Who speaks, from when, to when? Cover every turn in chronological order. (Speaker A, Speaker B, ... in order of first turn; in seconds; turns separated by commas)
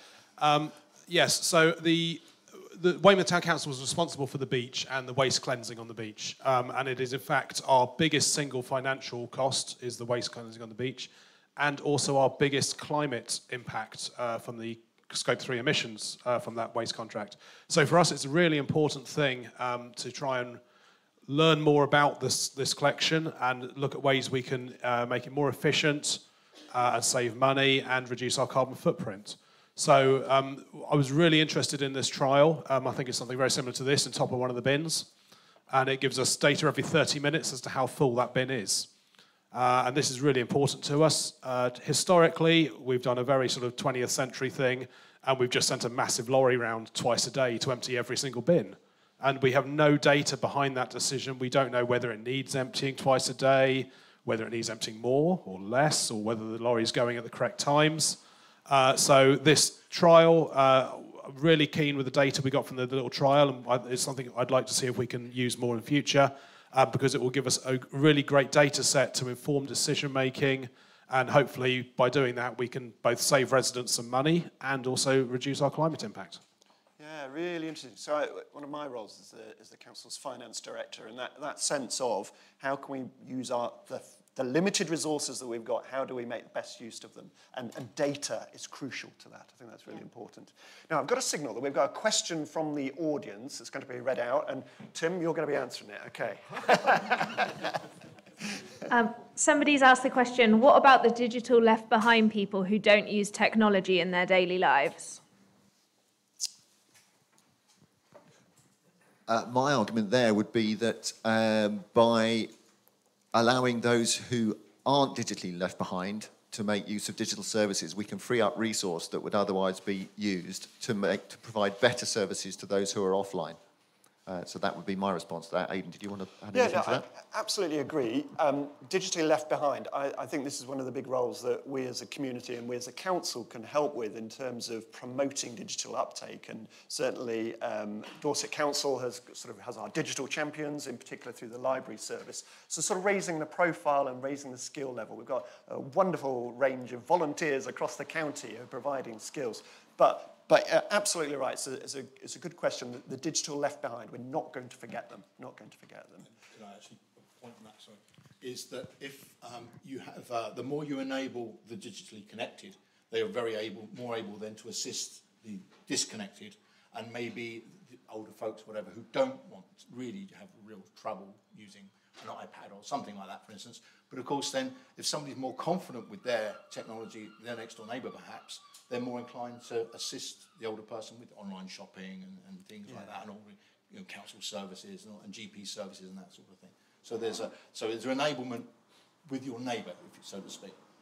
Speaker A: 0.4-20.6, Speaker A: 21.2-35.1, Speaker A: 35.7-38.9, Speaker A: 39.5-76.4, Speaker B: 77.0-97.5, Speaker C: 98.9-105.2, Speaker D: 109.3-112.5, Speaker D: 113.3-123.6, Speaker D: 124.3-127.1, Speaker B: 126.5-156.3, Speaker E: 156.3-188.7, Speaker B: 182.9-183.1, Speaker E: 189.3-190.8